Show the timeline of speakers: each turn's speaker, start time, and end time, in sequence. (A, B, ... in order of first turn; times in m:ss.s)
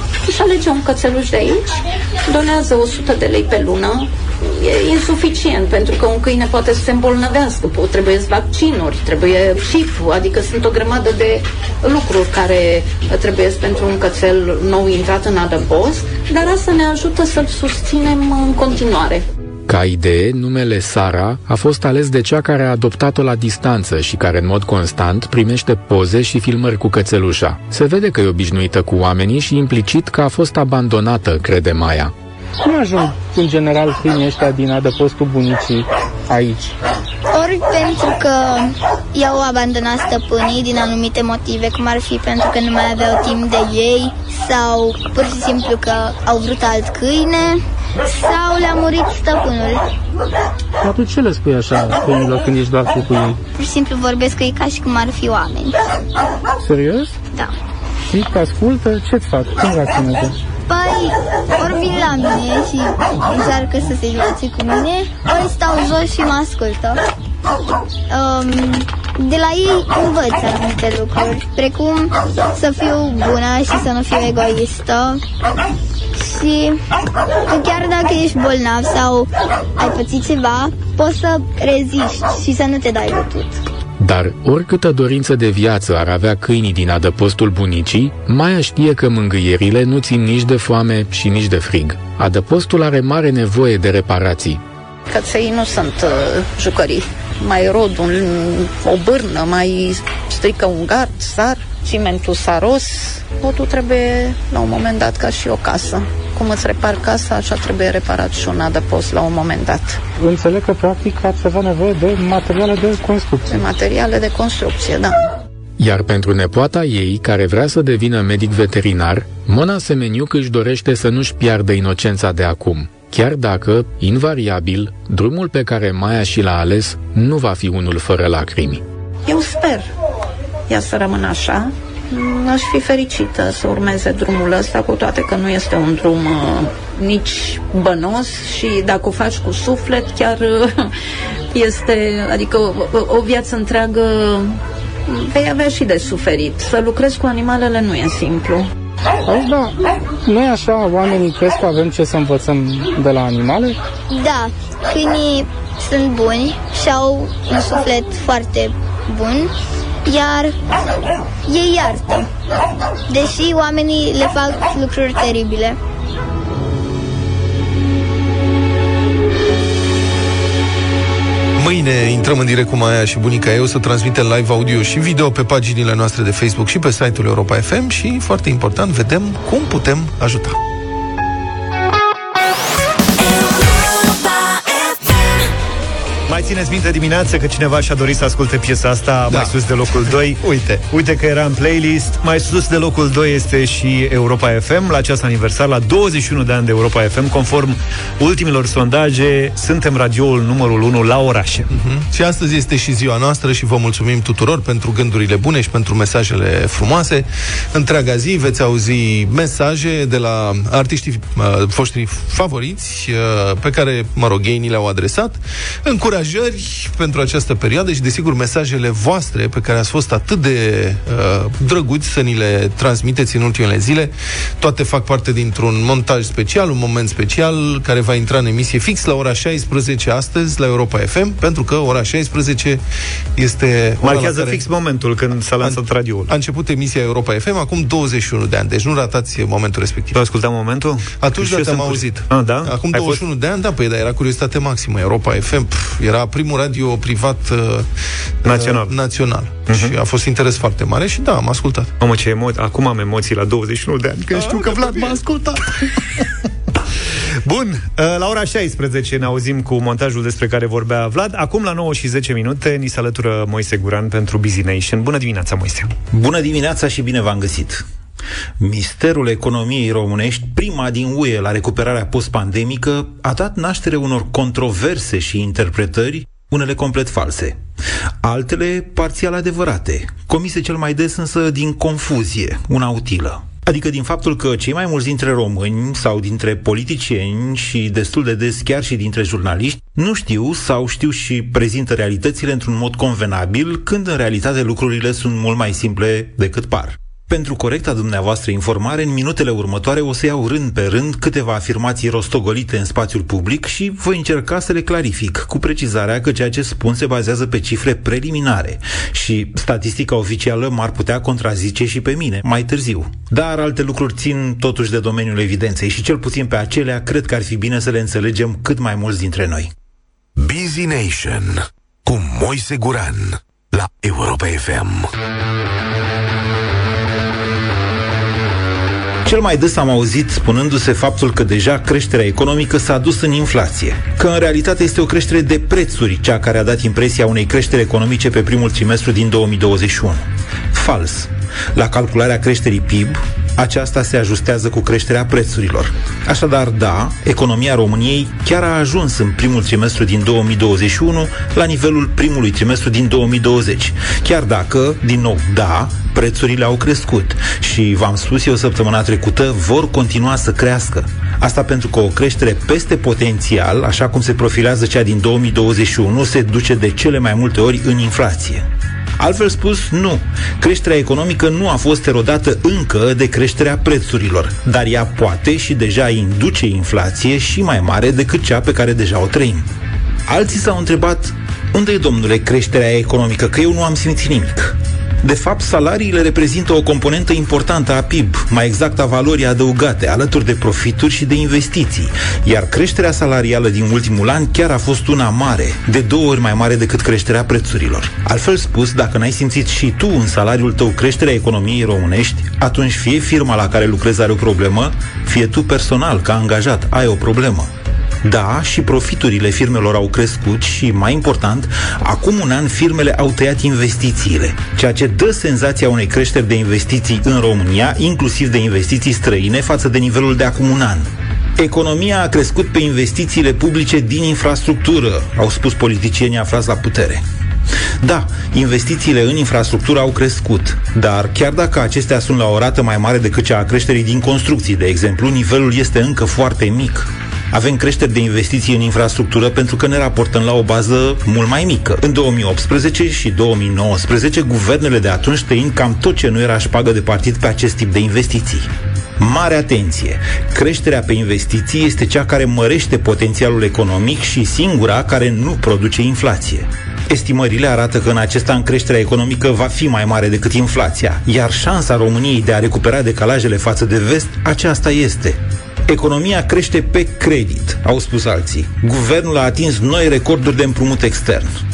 0:00.2-0:19.2 A
0:19.7-0:32.1 B
0:32.6-0:36.7 C
0:37.3-0:49.8 D
0:50.8-0:53.4 C
0:53.6-0:55.8 D
0:56.6-0:57.2 C
0:58.1-1:00.4 C
1:00.7-1:07.0 D
1:08.1-1:15.2 D
1:16.2-1:16.8 D
1:17.5-1:23.6 D
1:24.0-1:34.6 B
1:35.1-1:50.0 A
1:50.2-1:53.6 C
1:53.5-1:55.2 A
1:55.8-2:08.8 B
2:09.3-2:09.9 A
2:10.7-2:20.9 A
2:21.5-2:28.7 A
2:29.3-2:33.8 C
2:34.1-2:39.5 D
2:40.0-2:40.6 D
2:41.5-2:42.3 D
2:43.1-2:45.8 D
2:51.6-3:00.6 E
3:06.3-3:10.4 F
3:09.3-3:10.8 E
3:10.9-3:21.7 F
3:21.7-3:52.8 E
3:53.4-3:54.6 E
3:54.0-3:56.3 F
3:55.6-4:00.2 E
4:00.1-4:03.2 F
4:01.2-4:07.9 E
4:08.4-4:11.9 E
4:08.4-4:09.0 F
4:09.7-4:09.9 F
4:12.0-4:15.4 F
4:14.3-4:15.6 E
4:17.5-4:25.9 F
4:26.1-4:27.8 G
4:28.6-4:37.6 G
4:38.2-5:19.7 G
5:20.4-5:25.1 H
5:29.2-6:08.6 G
6:09.2-6:19.7 G
6:20.3-6:47.7 G
6:48.2-7:01.1 G
7:01.6-7:07.2 G
7:08.0-7:28.7 G
7:29.2-7:51.6 G